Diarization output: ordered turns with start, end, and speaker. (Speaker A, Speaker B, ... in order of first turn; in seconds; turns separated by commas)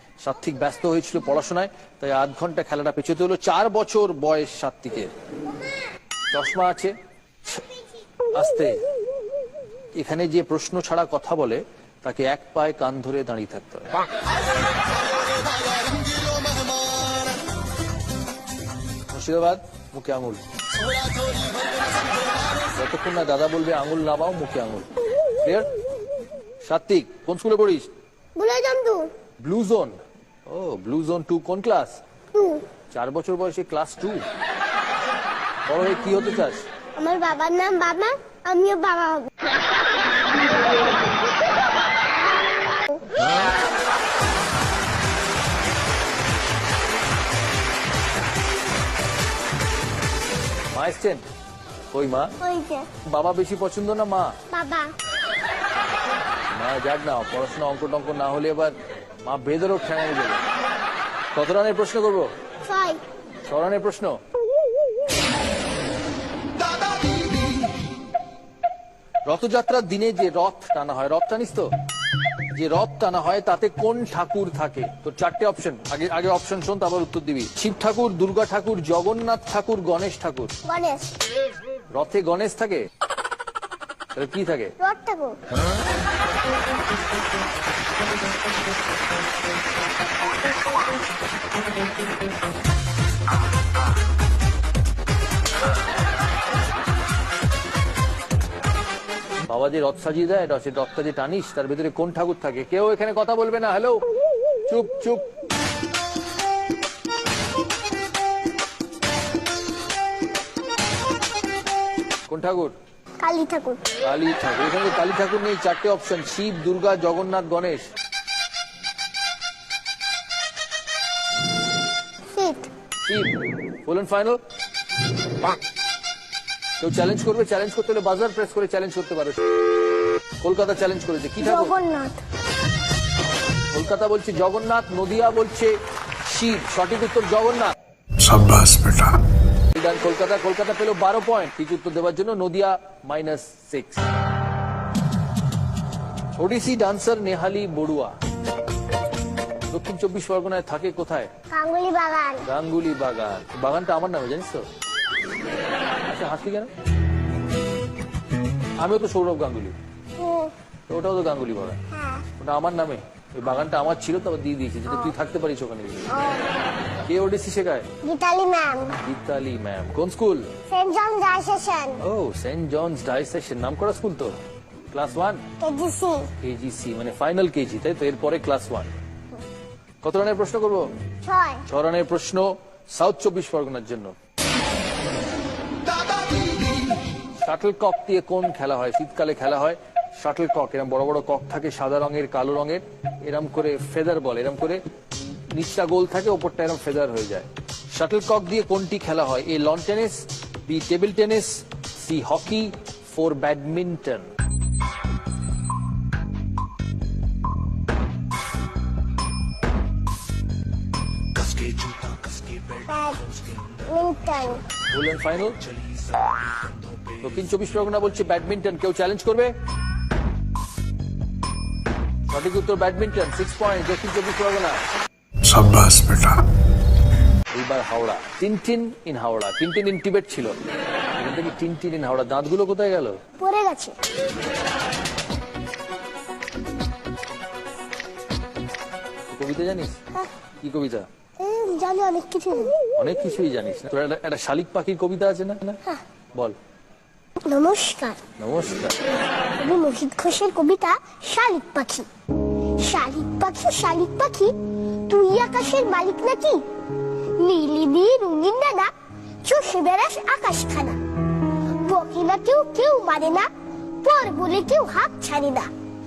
Speaker A: 0.2-5.1, Speaker A: 6.3-6.9, Speaker A: 8.3-8.8, Speaker A: 10.0-13.9, Speaker A: 19.1-20.4, Speaker A: 22.8-24.9, Speaker A: 25.4-25.7, Speaker A: 26.6-27.9, Speaker B: 28.4-29.1, Speaker A: 29.4-32.0, Speaker B: 32.4-32.7, Speaker A: 32.9-34.2, Speaker A: 35.7-36.7, Speaker B: 37.0-39.3, Speaker A: 50.7-51.2, Speaker A: 51.9-52.3, Speaker B: 52.4-52.9, Speaker A: 53.0-54.4, Speaker B: 54.5-54.9, Speaker A: 56.5-60.5, Speaker A: 61.4-62.3, Speaker B: 62.7-63.0, Speaker A: 63.5-64.2, Speaker A: 69.3-71.7, Speaker A: 72.5-80.5, Speaker B: 80.7-81.1, Speaker A: 81.9-82.9, Speaker A: 84.2-84.7, Speaker B: 84.8-85.4, Speaker A: 99.5-104.0, Speaker A: 104.7-105.2, Speaker A: 112.3-112.8, Speaker B: 113.2-113.8, Speaker A: 114.0-117.9, Speaker B: 122.3-122.7, Speaker A: 123.0-123.3, Speaker A: 123.8-124.4, Speaker A: 126.8-129.4, Speaker A: 130.4-131.7, Speaker B: 131.4-132.2, Speaker A: 133.7-137.8, Speaker C: 138.2-139.2, Speaker A: 139.8-144.1, Speaker A: 146.4-148.2, Speaker A: 149.7-151.3, Speaker B: 151.5-152.4, Speaker A: 152.4-154.7, Speaker A: 156.1-156.7, Speaker A: 158.8-159.8, Speaker B: 160.2-160.5, Speaker A: 160.9-161.8, Speaker B: 161.9-162.3, Speaker A: 162.4-166.2, Speaker B: 166.1-166.5, Speaker A: 167.1-167.9, Speaker B: 168.0-169.0, Speaker A: 168.9-170.5, Speaker B: 170.7-172.0, Speaker A: 172.0-174.4, Speaker A: 174.9-175.4, Speaker B: 175.6-176.3, Speaker A: 176.4-178.9, Speaker A: 180.0-180.9, Speaker B: 181.2-181.6, Speaker A: 181.7-184.2, Speaker A: 187.4-204.3, Speaker B: 212.8-214.6, Speaker A: 214.9-215.6, Speaker A: 217.0-219.5, Speaker A: 222.3-224.8, Speaker C: 225.4-226.4, Speaker A: 227.5-230.6, Speaker A: 231.2-233.2, Speaker B: 233.4-233.9, Speaker A: 239.3-240.0, Speaker A: 240.6-241.1, Speaker B: 241.4-242.8, Speaker A: 243.0-245.8, Speaker B: 247.4-248.2, Speaker A: 248.4-249.0, Speaker B: 249.6-252.1, Speaker B: 252.8-254.5, Speaker B: 255.1-256.6, Speaker B: 257.4-258.9, Speaker B: 259.4-261.0, Speaker B: 261.8-263.5, Speaker B: 264.0-265.7